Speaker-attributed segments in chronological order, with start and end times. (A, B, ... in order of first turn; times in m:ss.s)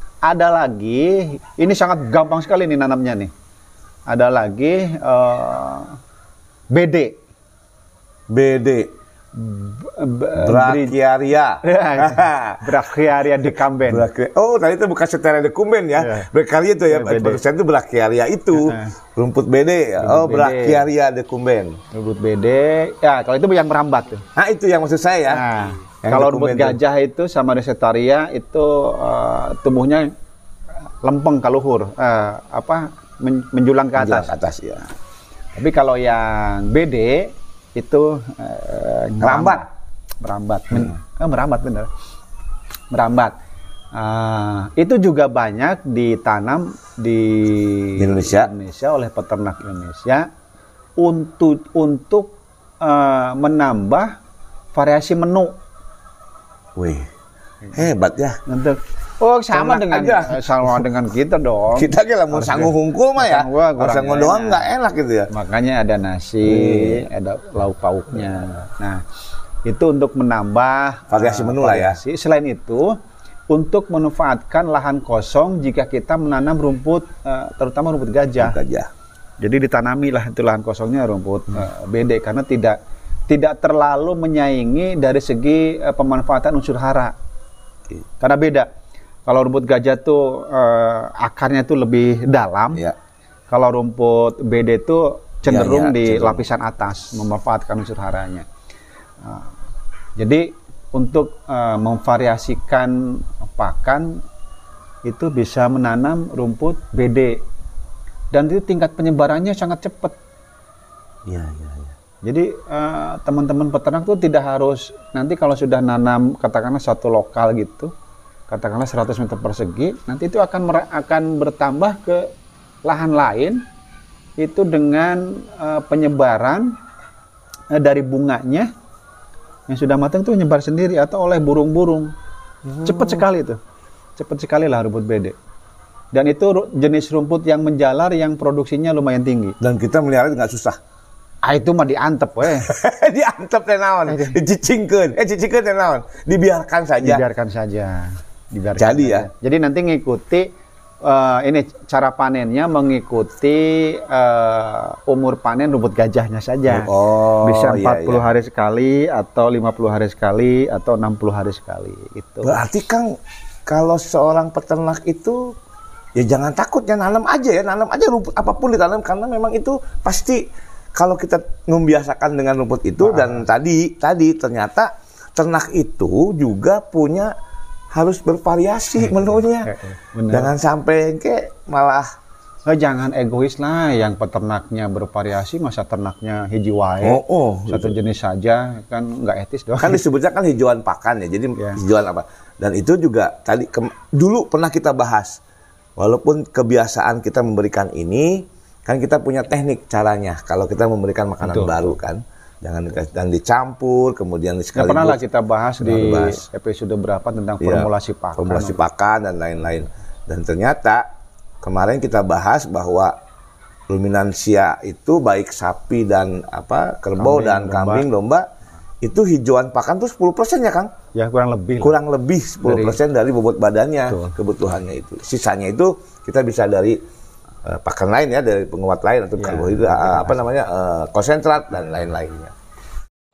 0:00.2-0:03.3 A
0:04.1-0:06.0 A
0:06.7-0:07.2 A
0:08.3-0:08.9 B
0:09.3-0:11.0 A
0:10.4-0:12.8 B
0:11.6-0:14.1 A
0:13.8-0:21.8 B
0:16.0-0:16.3 A
0:16.9-0:17.4 A
0:18.5-0:18.9 A
0:20.0-0:20.8 A
0:21.9-0:24.2 A
0:24.4-0:25.4 B
0:25.3-0:30.1 A
0:26.0-0:26.8 B
0:31.0-0:34.4 A
0:34.0-0:34.8 B
0:35.5-0:39.7 A
0:39.2-0:39.6 B
0:40.2-0:41.9 A
0:42.9-0:43.3 A
0:43.9-0:50.3 A
0:48.0-0:48.5 B
0:51.0-0:54.1 A
0:54.7-0:55.6 A
0:56.8-0:57.1 B
0:57.7-0:58.4 B
0:58.5-1:04.7 A
0:59.5-1:00.8 B
1:01.7-1:05.3 B
1:05.3-1:09.0 A
1:06.4-1:07.0 B
1:09.6-1:13.0 A
1:11.1-1:12.0 B
1:13.5-1:18.6 A
1:18.4-1:18.9 B
1:19.4-1:27.1 A
1:28.2-1:28.7 A
1:29.2-1:32.8 A
1:33.5-1:38.4 A
1:35.4-1:36.4 B
1:39.2-1:39.5 A
1:40.2-1:44.2 A
1:45.0-1:47.4 A
1:48.3-1:50.2 A
1:51.3-1:51.9 B
1:52.2-1:57.9 A
1:58.5-2:02.3 A
2:02.8-2:03.6 A
2:04.4-2:06.7 A
2:07.7-2:08.7 A
2:09.7-2:12.1 A
2:12.7-2:13.2 B
2:12.8-2:13.6 A
2:14.2-2:15.3 A
2:16.1-2:19.6 A
2:19.6-2:20.8 B
2:21.4-2:22.7 A
2:22.5-2:27.2 B
2:24.1-2:24.4 A
2:27.0-2:30.5 A
2:28.8-2:29.3 B
2:31.0-2:36.9 A
2:36.7-2:38.3 B
2:37.4-2:42.6 A
2:42.4-2:43.1 B
2:43.6-2:45.5 B
2:46.2-2:57.3 B
2:53.0-2:53.4 A
2:57.9-2:59.7 B
2:59.0-3:00.5 A
3:00.3-3:02.1 B
3:02.6-3:10.0 A
3:07.0-3:07.9 B
3:09.8-3:15.4 B
3:16.0-3:25.2 B
3:21.4-3:21.9 A
3:24.7-3:28.8 A
3:25.8-3:26.4 B
3:27.6-3:31.0 B
3:31.6-3:33.1 B
3:33.9-3:38.4 B
3:37.2-3:38.0 A
3:39.0-3:40.9 B
3:41.1-3:42.0 A
3:41.8-3:47.0 B
3:42.6-3:43.0 A
3:44.1-3:44.4 A
3:47.6-3:52.5 B
3:49.4-3:50.5 A